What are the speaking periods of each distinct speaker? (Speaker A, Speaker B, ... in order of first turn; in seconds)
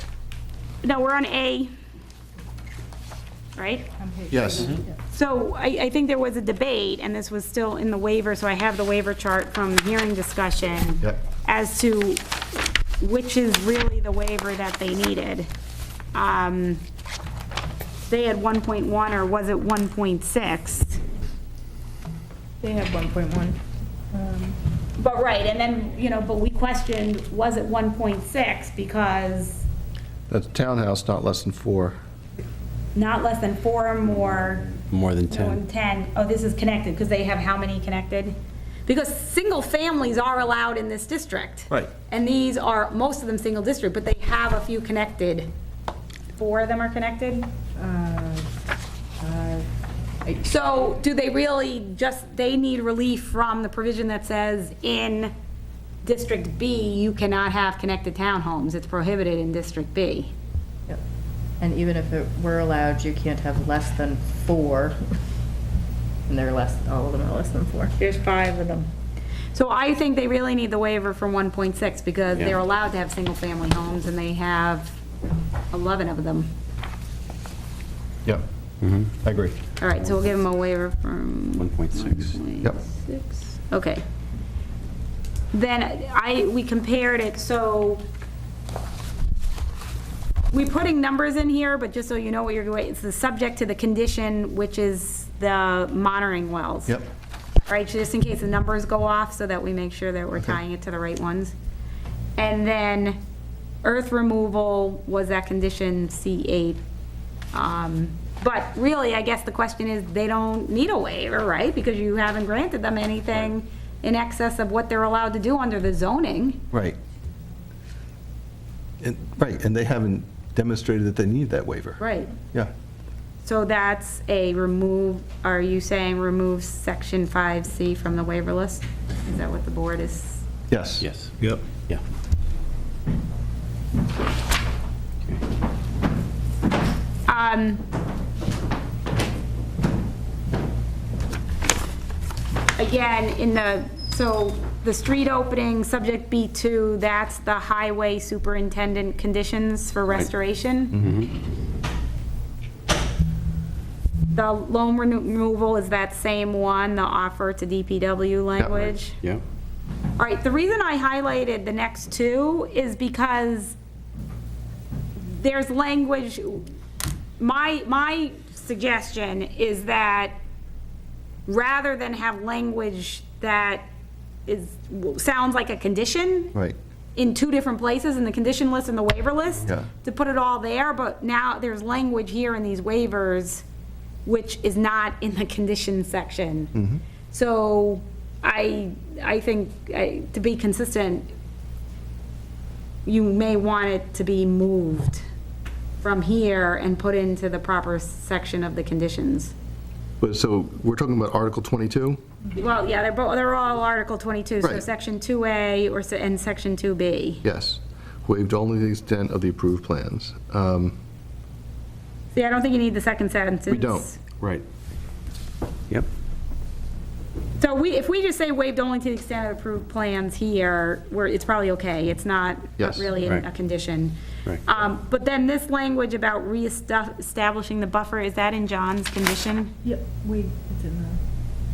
Speaker A: 0.8-1.7, 3.5-3.9, 5.1-12.2, 13.0-15.5, 16.1-16.8, 18.1-21.0, 24.9-29.6, 32.9-34.7, 35.3-45.5, 46.4-47.5, 50.4-55.3, 56.0-60.3, 68.0-68.9, 69.5-75.0, 75.7-76.5, 79.8-84.0, 85.5-88.0, 90.5-97.0, 97.7-101.5, 102.4-103.2, 103.8-106.8, 107.5-116.6, 122.0-122.3, 123.4-130.4, 137.3-137.8, 142.8-150.9, 154.3-159.2, 160.2-163.8, 165.2-166.7, 167.4-170.3, 171.5-173.9, 174.5-176.5, 177.2-183.6, 184.2-186.7, 187.3-191.3, 193.1-195.2, 196.0-199.5, 202.5-207.4, 212.3-214.2, 217.6-229.8
Speaker B: 4.0-5.0, 22.6-23.6, 24.1-24.6, 47.8-48.5, 49.2-49.7, 61.6-65.1, 66.3-67.9, 229.8-231.2
Speaker C: 4.3-4.8, 30.3-31.9, 79.2-79.5, 116.7-117.0, 119.0-122.0, 130.7-131.6, 158.6-158.9, 186.7-187.0, 200.2-202.2, 207.4-211.0, 213.7-214.1, 222.8-223.1
Speaker D: 34.7-35.6, 78.8-79.1, 81.5-82.4, 131.0-132.0, 151.0-151.3